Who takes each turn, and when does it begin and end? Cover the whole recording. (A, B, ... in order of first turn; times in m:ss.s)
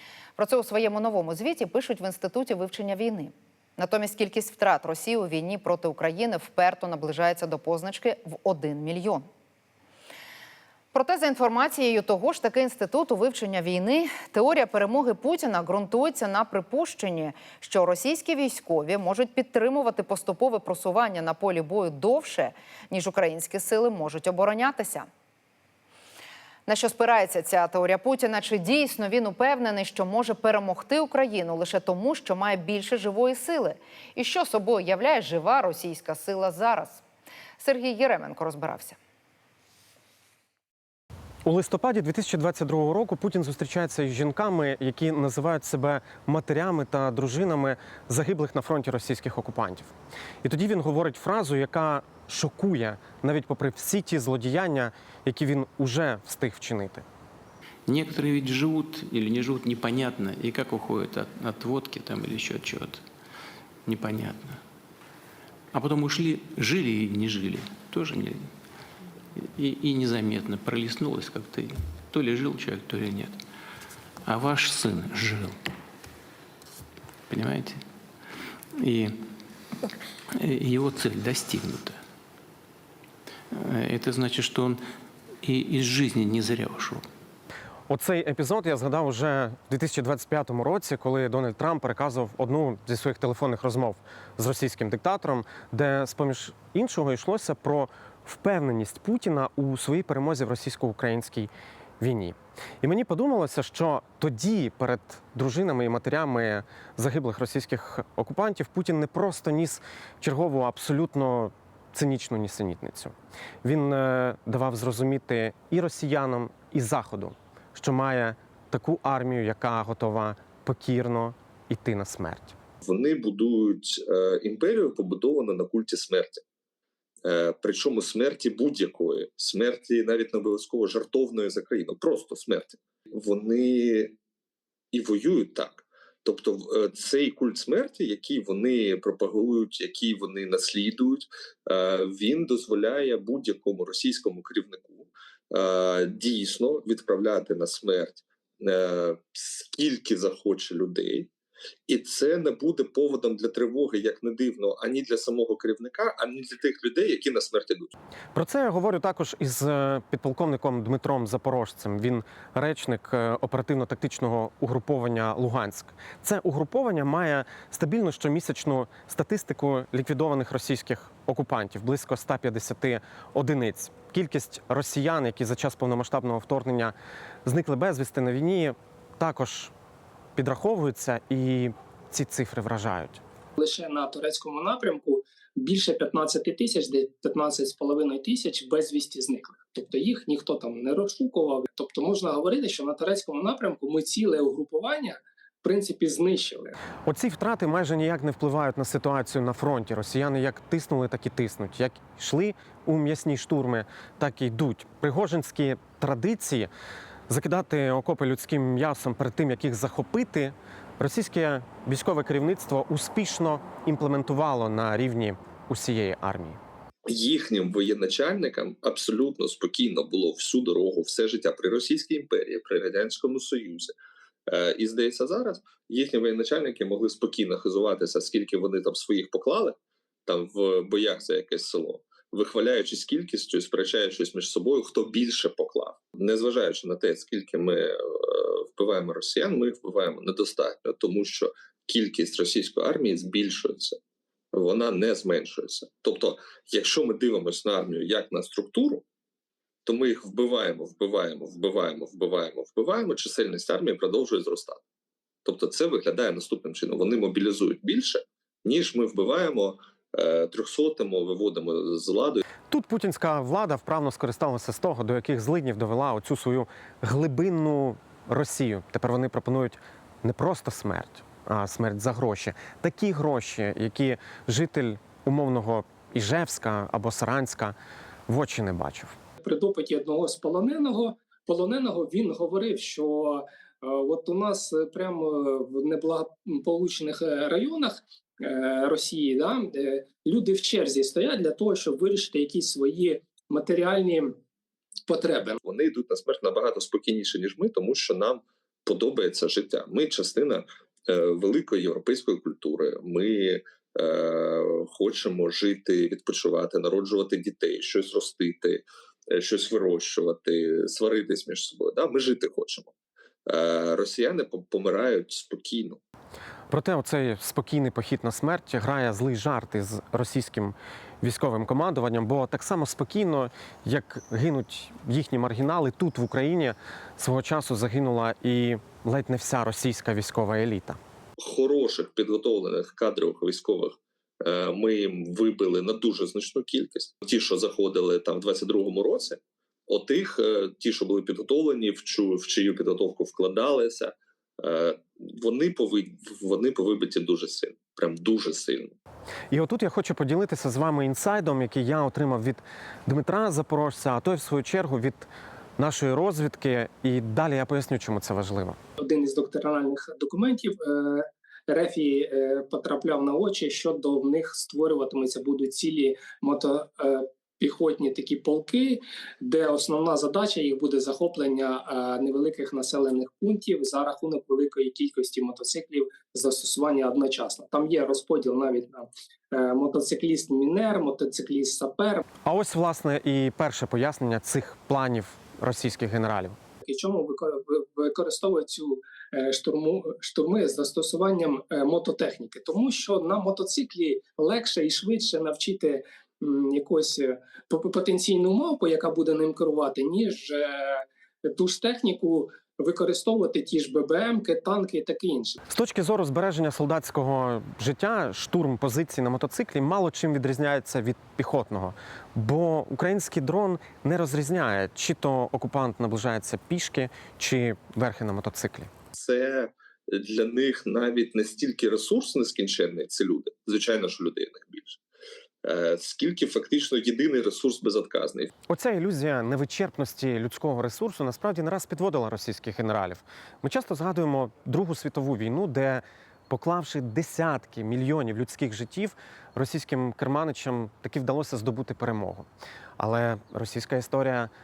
0:00.4-0:09.2 A
0:10.9-0:25.1 A
0:26.6-0:37.0 A
0:37.6-0:39.0 A
0:41.4-0:49.9 B
0:50.4-0:57.0 B
0:57.8-1:03.0 C
1:03.8-1:04.6 C
1:05.7-1:08.5 C
1:09.4-1:13.4 C
1:14.2-1:15.6 C
1:17.3-1:17.8 C
1:18.8-1:19.2 C
1:20.4-1:22.0 C
1:23.5-1:24.8 C
1:25.4-1:27.0 C
1:27.9-1:53.1 B
1:53.6-2:02.6 B
2:02.8-2:06.4 D
2:07.2-2:14.2 D
2:14.9-2:31.3 D
2:31.9-2:37.9 D
2:38.3-2:56.9 B
2:57.4-2:59.7 B
3:00.4-3:03.2 B
3:03.6-3:16.8 E
3:17.0-3:26.7 B
3:27.3-3:36.6 B
3:37.0-3:43.9 D
3:44.5-4:04.0 D
4:04.5-4:09.0 D
4:09.8-4:14.8 D
4:15.4-4:22.4 D
4:22.7-4:37.7 B
4:38.3-4:39.1 B
4:39.4-4:54.3 E
4:55.1-4:55.6 E
4:55.6-5:12.9 D
5:13.5-5:16.0 D
5:16.7-5:31.0 B
5:31.4-5:49.0 D
5:49.5-5:58.8 B
5:59.0-6:22.2 E
6:22.4-6:26.6 B
6:26.8-6:45.6 E
6:45.7-6:58.9 B
6:59.2-7:05.0 D
7:05.6-7:08.5 D
7:08.7-7:22.5 B
7:23.0-7:24.5 B